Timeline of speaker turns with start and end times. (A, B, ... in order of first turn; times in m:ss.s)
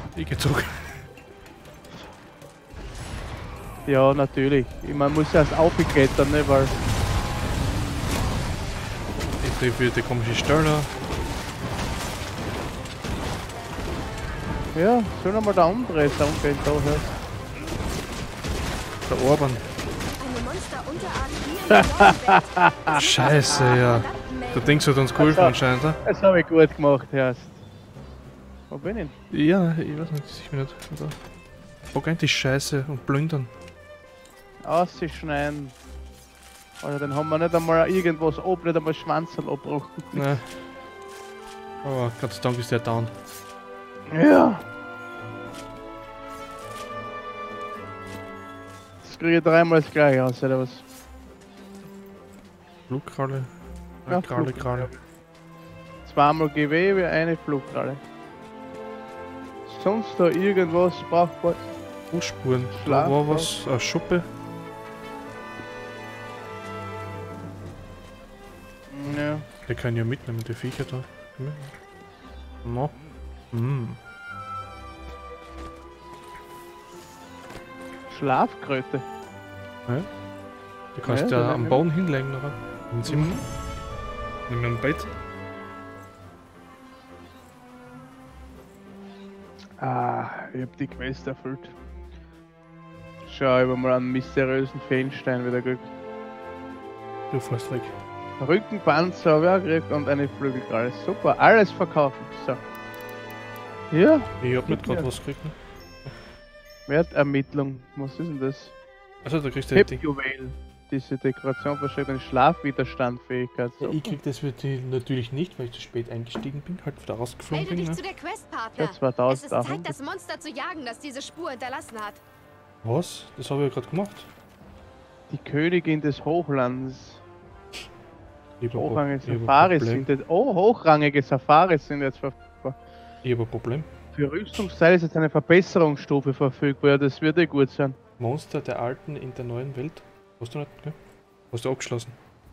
0:00.1-0:01.0 A
0:03.8-0:06.7 B
0:09.4-0:10.9 A
0:14.7-0:17.1 B
0:19.0-0:19.6 A
0:20.2-0:24.9 C
0:21.7-0:23.6 B
0:22.9-0:26.0 A
0:25.2-0:27.6 B
0:28.7-0:29.1 B
0:29.3-0:31.2 A
0:31.9-0:33.5 A
0:34.6-0:35.8 B
0:36.8-0:40.3 B
0:40.1-0:40.6 A
0:41.8-0:43.1 A
0:44.1-0:44.6 B
0:49.0-0:50.8 B
0:52.9-0:55.0 A
0:54.1-0:55.0 B
0:56.0-0:58.0 B
0:59.6-1:01.7 B
1:02.1-1:04.2 A
1:02.7-1:03.5 B
1:08.9-1:09.5 B
1:09.6-1:11.7 A
1:12.6-1:13.0 A
1:13.5-1:14.0 A
1:18.1-1:19.0 B
1:19.8-1:20.2 A
1:20.9-1:23.5 A
1:21.0-1:21.8 B
1:23.0-1:23.5 B
1:24.5-1:25.1 A
1:29.8-1:31.8 B
1:33.2-1:35.9 B
1:37.3-1:37.9 A
1:38.4-1:42.6 B
1:43.9-1:45.1 B
1:44.4-1:46.2 A
1:46.9-1:48.7 B
1:49.2-1:50.0 A
1:49.7-1:54.1 B
1:53.8-1:58.0 A
1:57.5-2:02.2 C
1:58.8-1:59.9 B
2:02.8-2:04.3 A
2:05.3-2:07.2 B
2:08.6-2:10.1 A
2:08.7-2:12.8 B
2:13.2-2:13.9 A
2:14.1-2:18.0 B
2:18.2-2:21.0 A
2:21.5-2:22.2 A